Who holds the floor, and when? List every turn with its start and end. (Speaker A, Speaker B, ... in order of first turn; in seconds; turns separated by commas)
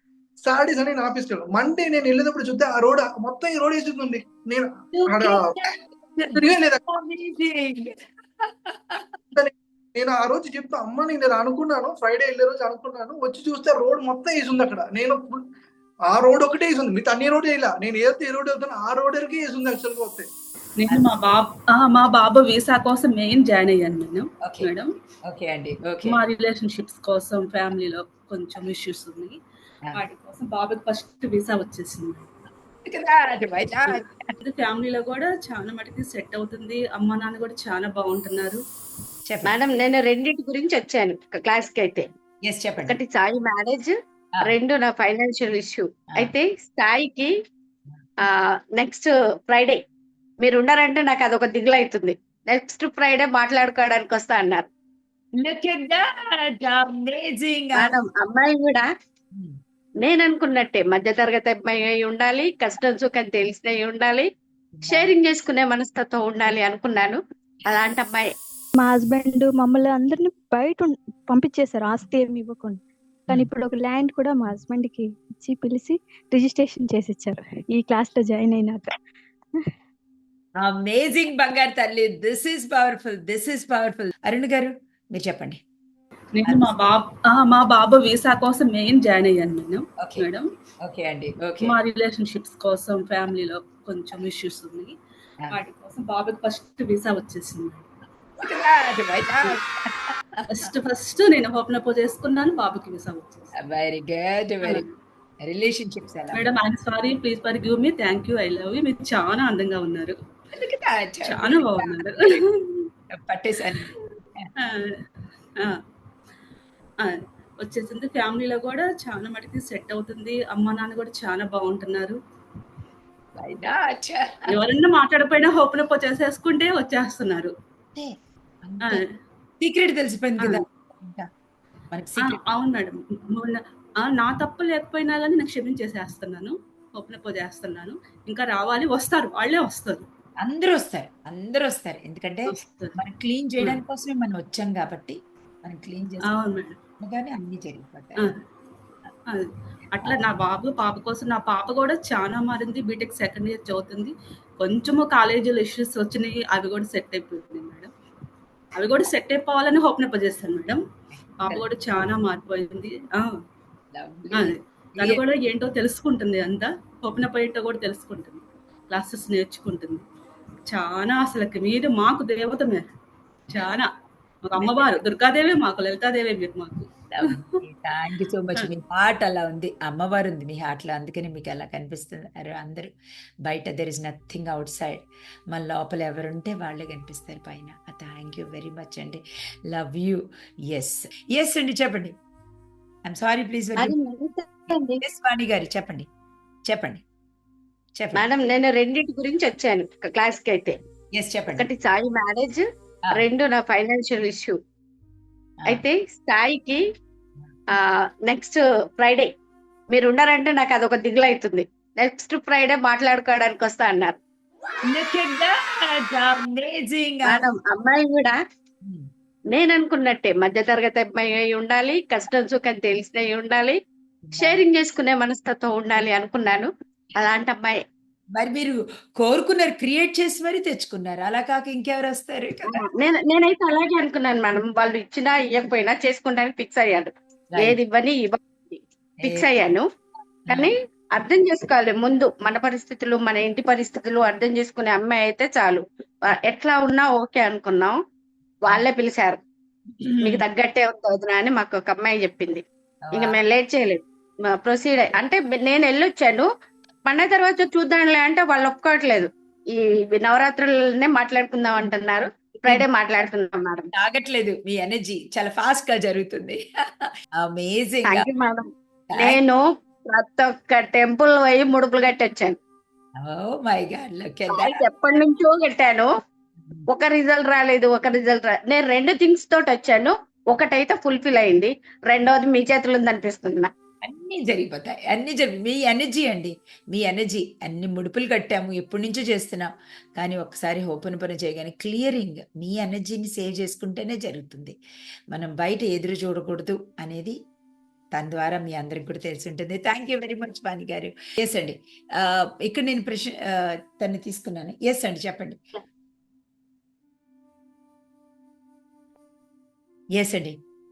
Speaker A: 0.5-5.5, Speaker B: 4.9-9.1, Speaker A: 6.3-6.8, Speaker A: 9.3-15.4, Speaker A: 16.1-20.3, Speaker C: 20.8-24.9, Speaker B: 25.3-26.2, Speaker C: 26.1-29.4, Speaker C: 29.9-32.3, Speaker B: 32.9-34.1, Speaker C: 33.9-38.6, Speaker B: 39.3-39.6, Speaker D: 39.5-42.1, Speaker B: 42.4-43.0, Speaker D: 42.9-47.3, Speaker D: 48.8-49.8, Speaker D: 50.4-54.7, Speaker B: 55.4-57.9, Speaker D: 57.8-58.9, Speaker D: 60.0-64.3, Speaker B: 64.7-65.1, Speaker D: 64.9-68.3, Speaker E: 68.8-78.9, Speaker B: 80.6-85.6, Speaker C: 86.3-90.5, Speaker B: 86.5-86.8, Speaker B: 90.8-91.7, Speaker C: 91.6-95.0, Speaker C: 95.5-97.9, Speaker B: 98.4-100.7, Speaker C: 100.5-103.5, Speaker B: 103.6-104.8, Speaker C: 104.6-104.9, Speaker B: 105.4-106.5, Speaker C: 106.3-110.2, Speaker B: 110.5-112.4, Speaker C: 111.2-112.4, Speaker B: 113.1-114.5, Speaker C: 114.7-114.9, Speaker C: 117.0-122.2, Speaker B: 123.4-124.5, Speaker C: 124.5-127.5, Speaker B: 128.6-129.0, Speaker C: 128.8-129.1, Speaker B: 129.6-131.3, Speaker C: 130.4-130.6, Speaker B: 131.9-132.4, Speaker C: 132.2-140.1, Speaker B: 140.4-146.3, Speaker C: 142.5-143.0, Speaker C: 146.2-146.8, Speaker B: 147.0-148.3, Speaker C: 149.3-157.9, Speaker C: 158.8-160.8, Speaker B: 161.1-161.7, Speaker C: 161.4-163.3, Speaker B: 163.9-165.2, Speaker C: 164.3-170.1, Speaker C: 170.7-172.8, Speaker C: 173.5-173.9, Speaker C: 174.5-177.4, Speaker B: 174.6-175.0, Speaker B: 177.1-182.9, Speaker B: 183.5-192.2, Speaker B: 193.1-193.9, Speaker D: 193.8-195.0, Speaker B: 195.0-196.1, Speaker B: 196.7-197.0, Speaker B: 198.0-198.3, Speaker D: 198.2-200.8, Speaker B: 201.1-201.7, Speaker D: 201.6-202.6, Speaker D: 203.1-204.6, Speaker D: 205.7-206.8, Speaker D: 207.8-209.3, Speaker D: 209.9-214.2, Speaker B: 214.9-217.4, Speaker D: 217.3-218.4, Speaker D: 219.5-223.8, Speaker B: 224.2-224.6, Speaker D: 224.3-227.8, Speaker B: 228.4-232.8, Speaker D: 232.7-239.8, Speaker B: 237.5-237.8, Speaker B: 239.2-239.5, Speaker B: 240.5-240.7, Speaker D: 240.5-248.0, Speaker D: 248.7-249.4, Speaker B: 250.0-250.4, Speaker D: 250.2-256.5, Speaker B: 253.0-253.4, Speaker D: 257.1-263.9, Speaker B: 263.9-266.6, Speaker B: 267.4-268.3, Speaker D: 268.1-268.7, Speaker B: 269.1-269.4, Speaker D: 269.2-272.6, Speaker B: 273.2-274.9, Speaker D: 274.5-276.1, Speaker D: 276.9-283.7, Speaker B: 284.0-294.8, Speaker B: 295.3-297.4, Speaker B: 298.1-305.6, Speaker B: 310.2-310.6